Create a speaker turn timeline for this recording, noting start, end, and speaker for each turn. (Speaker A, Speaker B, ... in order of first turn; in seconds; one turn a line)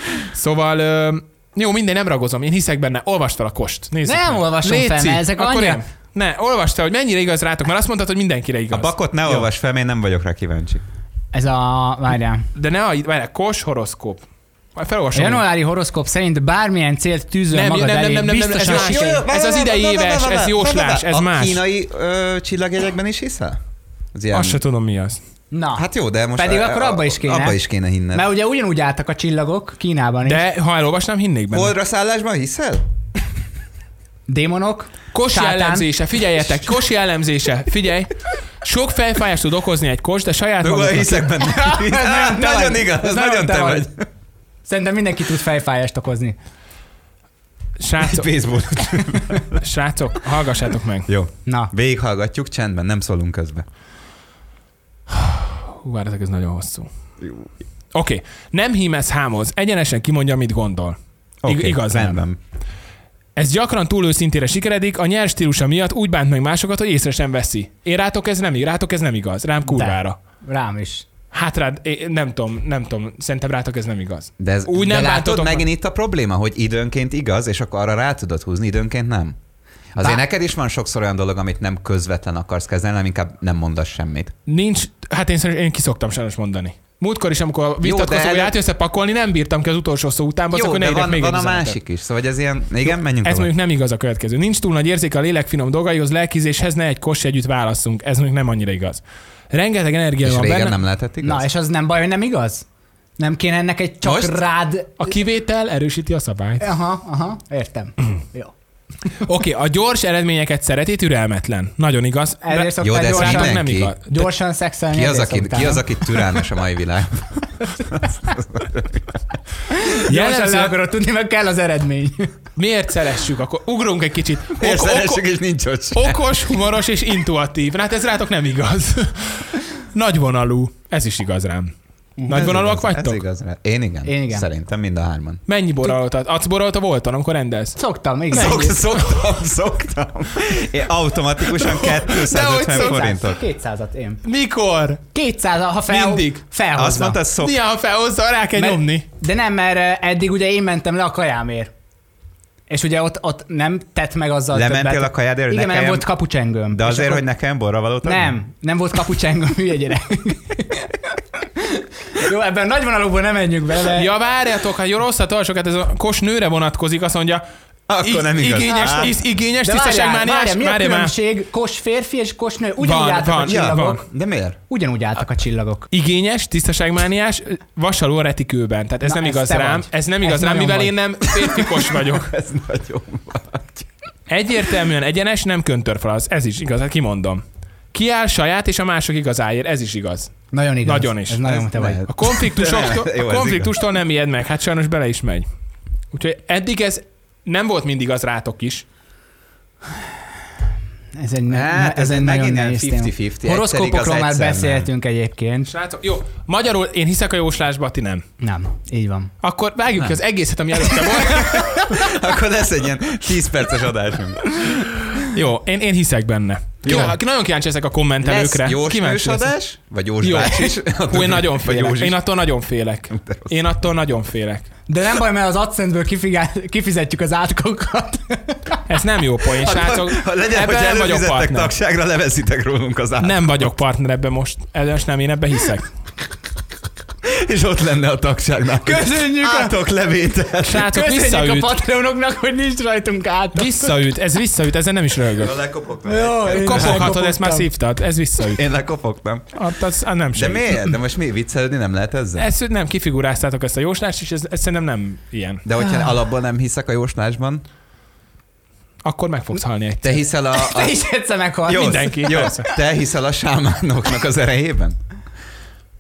Speaker A: 0.3-9.4
Speaker B: 4.0-5.8
Speaker C: 8.7-10.8
Speaker B: 11.3-12.5
Speaker A: 12.6-14.2
Speaker A: 14.8-15.4
Speaker B: 15.1-19.2
Speaker A: 17.5-21.6
Speaker C: 18.6-23.6
Speaker C: 24.1-24.6
Speaker A: 24.3-25.2
Speaker B: 25.5-25.9
Speaker C: 25.8-28.2
Speaker B: 26.4-27.6
Speaker B: 28.1-30.4
Speaker A: 30.2-31.7
Speaker C: 31.5-32.8
Speaker B: 34.3-35.9
Speaker A: 35.1-41.3
Speaker C: 40.6-44.0
Speaker B: 41.4-43.9
Speaker B: 44.7-46.4
Speaker A: 47.8-48.3
Speaker C: 48.0-49.6
Speaker A: 49.5-51.1
Speaker C: 51.1-53.7
Speaker B: 51.5-51.7
Speaker A: 55.1-56.9
Speaker A: 57.9-62.3
Speaker C: 61.4-62.4
Speaker A: 63.4-70.2
Speaker B: 69.7-71.1
Speaker A: 71.3-75.7
Speaker C: 74.4-79.4
Speaker C: 80.0-84.3
Speaker A: 84.5-91.8
Speaker C: 87.8-88.5
Speaker C: 90.5-93.5
Speaker A: 92.9-100.8
Speaker C: 100.2-101.5
Speaker B: 101.2-102.7
Speaker B: 103.2-105.1
Speaker C: 104.0-104.4
Speaker A: 105.0-106.6
Speaker B: 106.6-108.5
Speaker A: 109.2-114.3
Speaker B: 112.4-116.2
Speaker C: 112.8-114.0
Speaker C: 114.9-119.2
Speaker B: 119.7-122.3
Speaker A: 120.1-120.8
Speaker A: 122.6-125.2
Speaker C: 124.6-126.2
Speaker A: 125.9-131.7
Speaker B: 132.2-132.5
Speaker A: 132.3-133.2
Speaker C: 132.3-135.4
Speaker B: 134.1-134.5
Speaker A: 135.5-137.8
Speaker B: 137.8-138.8
Speaker C: 138.3-143.4
Speaker A: 138.4-139.2
Speaker A: 141.4-143.1
Speaker B: 142.6-144.2
Speaker A: 144.2-145.0
Speaker B: 145.1-147.2
Speaker A: 145.9-146.4
Speaker C: 146.8-147.6
Speaker A: 147.4-149.1
Speaker B: 148.6-151.7
Speaker B: 152.7-157.2
Speaker C: 154.5-156.1
Speaker C: 156.7-158.3
Speaker B: 158.0-164.1
Speaker A: 163.8-167.4
Speaker C: 167.9-169.2
Speaker A: 168.0-171.1
Speaker B: 168.7-174.1
Speaker A: 172.8-174.0
Speaker C: 173.4-174.6
Speaker B: 174.7-175.9
Speaker A: 175.9-182.3
Speaker B: 179.1-181.0
Speaker C: 181.3-183.9
Speaker A: 184.3-190.3
Speaker B: 190.5-192.0
Speaker A: 190.8-191.5
Speaker C: 191.4-193.8
Speaker A: 192.0-195.5
Speaker A: 196.1-198.8
Speaker B: 201.2-205.7
Speaker C: 201.5-204.9
Speaker A: 205.7-208.2
Speaker B: 208.4-209.3
Speaker A: 209.4-212.1
Speaker C: 211.1-214.9
Speaker A: 214.7-219.5
Speaker C: 216.8-217.2
Speaker C: 218.2-222.2
Speaker A: 220.2-224.7
Speaker C: 223.1-223.5
Speaker B: 224.9-228.8
Speaker A: 228.9-231.7
Speaker C: 229.6-233.7
Speaker A: 233.2-235.9
Speaker C: 237.2-240.9
Speaker B: 238.8-239.8
Speaker A: 240.6-241.8
Speaker B: 240.9-243.9
Speaker A: 243.6-245.6
Speaker C: 245.3-247.1
Speaker B: 246.1-247.7
Speaker A: 246.5-248.6
Speaker C: 248.4-249.6
Speaker A: 249.6-250.9
Speaker C: 250.3-252.5
Speaker A: 252.4-255.6
Speaker C: 255.7-257.6
Speaker B: 255.8-256.1
Speaker A: 259.0-260.2
Speaker C: 260.0-260.9
Speaker B: 260.5-262.4
Speaker C: 261.7-265.0
Speaker A: 261.7-262.7